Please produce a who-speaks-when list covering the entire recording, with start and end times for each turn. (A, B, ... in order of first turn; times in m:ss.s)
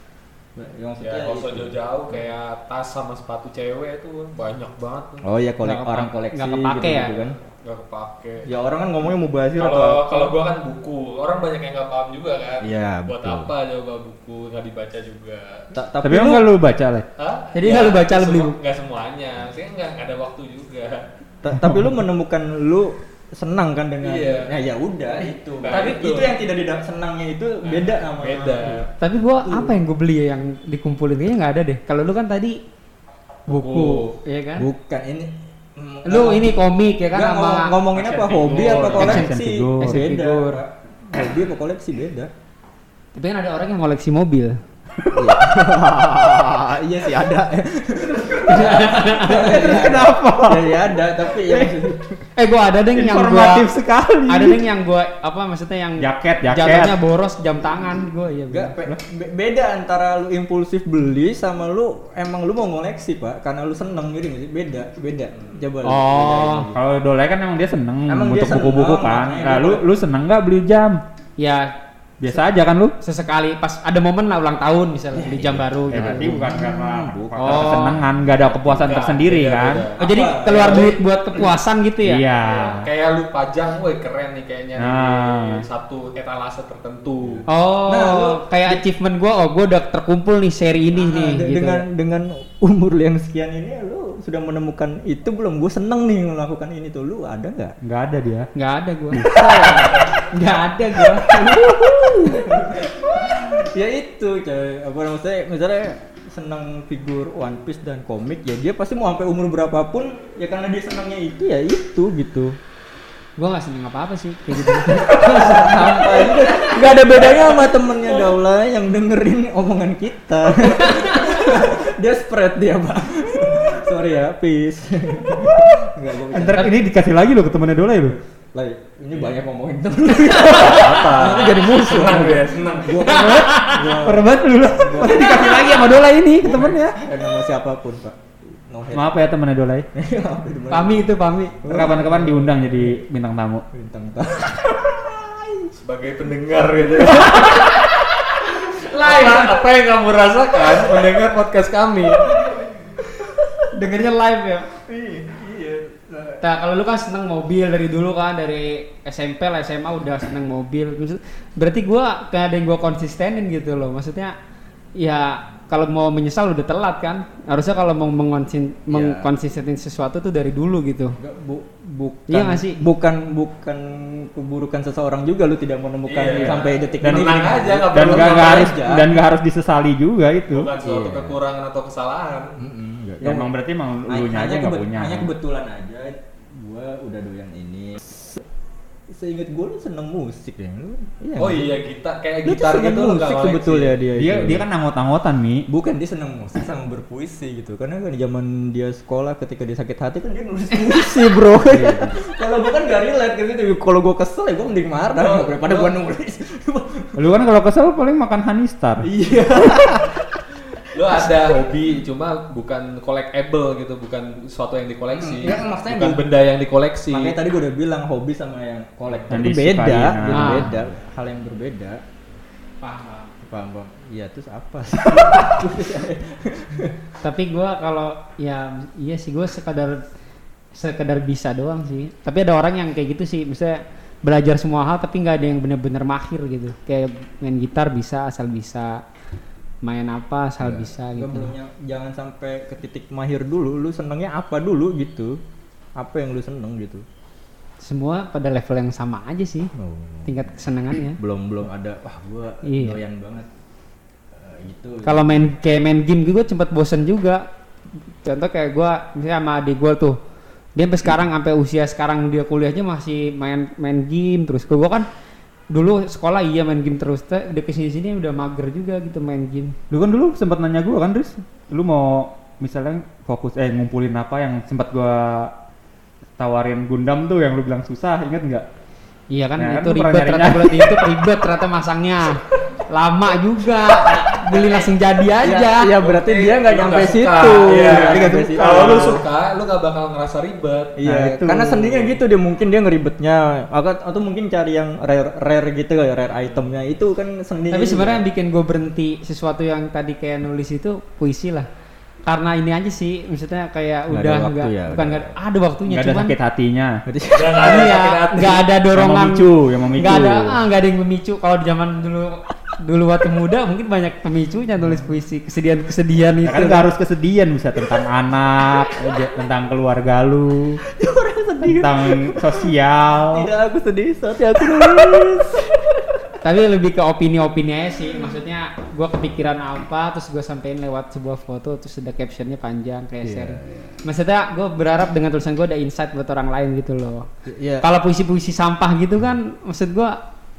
0:00.6-0:01.7 A
0:01.0-0:05.2 B
0:05.2-0:07.4 A
0:05.6-0:07.2 C
0:07.6-0:08.5 B
0:08.4-0:10.3 A
0:09.6-0:15.7 B
0:12.6-0:13.5 A
0:15.7-0:16.4 A
0:16.0-0:17.0 D
0:17.2-0:21.0 B
0:17.5-0:18.6 C
0:21.4-0:29.7 A
0:21.6-0:21.9 D
0:24.0-0:24.6 B
0:25.6-0:26.3 B
0:25.7-0:26.3 C
0:27.6-0:28.9 B
0:29.0-0:32.6 C
0:33.5-0:34.7 C
0:33.6-0:34.2 B
0:34.6-0:36.5 A
0:36.0-0:37.8 C
0:37.1-0:42.3 A
0:37.9-0:39.3 B
0:38.8-0:39.3 C
0:38.8-0:40.1 D
0:39.8-0:40.6 C
0:43.1-0:44.6 C
0:45.1-0:52.2 A
0:45.2-0:45.5 D
0:48.4-0:49.9 C
0:49.2-0:52.0 D
0:52.4-0:53.7 C
0:52.9-0:54.6 D
0:54.3-0:58.8 C
0:56.0-0:57.0 D
0:58.5-1:06.8 A
1:05.8-1:06.7 C
1:06.7-1:11.0 D
1:08.1-1:09.8 A
1:11.4-1:11.7 C
1:12.2-1:12.9 D
1:13.0-1:16.5 C
1:15.1-1:18.8 A
1:15.9-1:19.8 D
1:17.3-1:18.0 C
1:18.6-1:21.0 B
1:20.0-1:21.0 A
1:20.0-1:22.2 C
1:22.0-1:22.9 D
1:22.4-1:27.4 B
1:24.8-1:25.6 D
1:27.2-1:28.8 A
1:27.5-1:31.8 C
1:30.9-1:37.8 A
1:37.8-1:38.5 D
1:38.5-1:39.2 C
1:39.1-1:39.8 D
1:39.2-1:40.3 A
1:40.3-1:41.8 C
1:40.9-1:52.6 A
1:53.4-1:56.9 C
1:54.7-2:06.8 A
2:00.8-2:01.5 C
2:06.3-2:08.2 D
2:08.5-2:19.1 A
2:09.1-2:09.4 B
2:10.3-2:13.5 B
2:13.0-2:13.8 C
2:13.1-2:17.0 D
2:18.9-2:19.9 D
2:19.9-2:23.0 A
2:20.7-2:21.6 C
2:21.6-2:23.6 D
2:23.7-2:25.7 A
2:25.8-2:32.4 B
2:27.4-2:29.6 C
2:32.1-2:33.6 A
2:33.7-2:34.7 C
2:34.8-2:36.4 A
2:36.4-2:44.4 C
2:45.0-2:51.2 C
2:48.9-2:49.3 A
2:51.2-2:59.2 A
2:52.3-2:52.8 C
2:56.0-2:58.8 B
2:56.5-3:00.7 D
3:00.5-3:02.6 B
3:00.8-3:01.4 A
3:02.6-3:03.5 A
3:03.2-3:05.3 D
3:04.1-3:08.4 A
3:09.1-3:11.7 A
3:11.4-3:14.4 B
3:12.4-3:14.6 A
3:14.1-3:15.7 D
3:15.7-3:27.3 A
3:21.6-3:22.2 D
3:25.2-3:25.9 B
3:27.2-3:29.1 D
3:29.0-3:30.2 A
3:30.9-3:37.4 B
3:31.0-3:31.6 A
3:35.1-3:36.2 A
3:37.1-3:42.0 A
3:39.0-3:39.4 B
3:39.3-3:40.8 D
3:40.3-3:40.7 C
3:42.8-3:43.3 C
3:43.4-3:47.0 A
3:47.2-3:50.0 C
3:50.7-3:59.0 C
3:59.8-4:01.5 C
4:00.6-4:05.4 A
4:06.0-4:07.0 A
4:07.8-4:09.7 C
4:09.7-4:10.5 A
4:10.2-4:11.2 C
4:11.2-4:13.5 A
4:12.6-4:13.0 C
4:14.3-4:15.5 A
4:15.0-4:17.4 C
4:18.2-4:20.2 C
4:20.8-4:25.1 C
4:25.7-4:29.8 C
4:29.9-4:35.5 D
4:36.4-4:38.6 D
4:39.3-4:45.9 C
4:39.6-4:41.2 D
4:45.4-4:49.2 A
4:46.0-4:51.0 B
4:47.7-4:49.2 D
4:51.0-4:58.2 A
4:51.0-4:52.2 D
4:57.7-5:01.7 C
5:02.2-5:06.3 C
5:04.1-5:05.4 A
5:05.9-5:07.0 D
5:07.0-5:07.9 A
5:07.3-5:08.7 B
5:07.6-5:16.8 C
5:08.9-5:10.6 D
5:16.4-5:20.8 D
5:20.9-5:26.1 A
5:21.6-5:23.5 D
5:26.4-5:37.3 C
5:33.2-5:34.0 A
5:37.5-5:37.9 A
5:37.8-5:40.2 C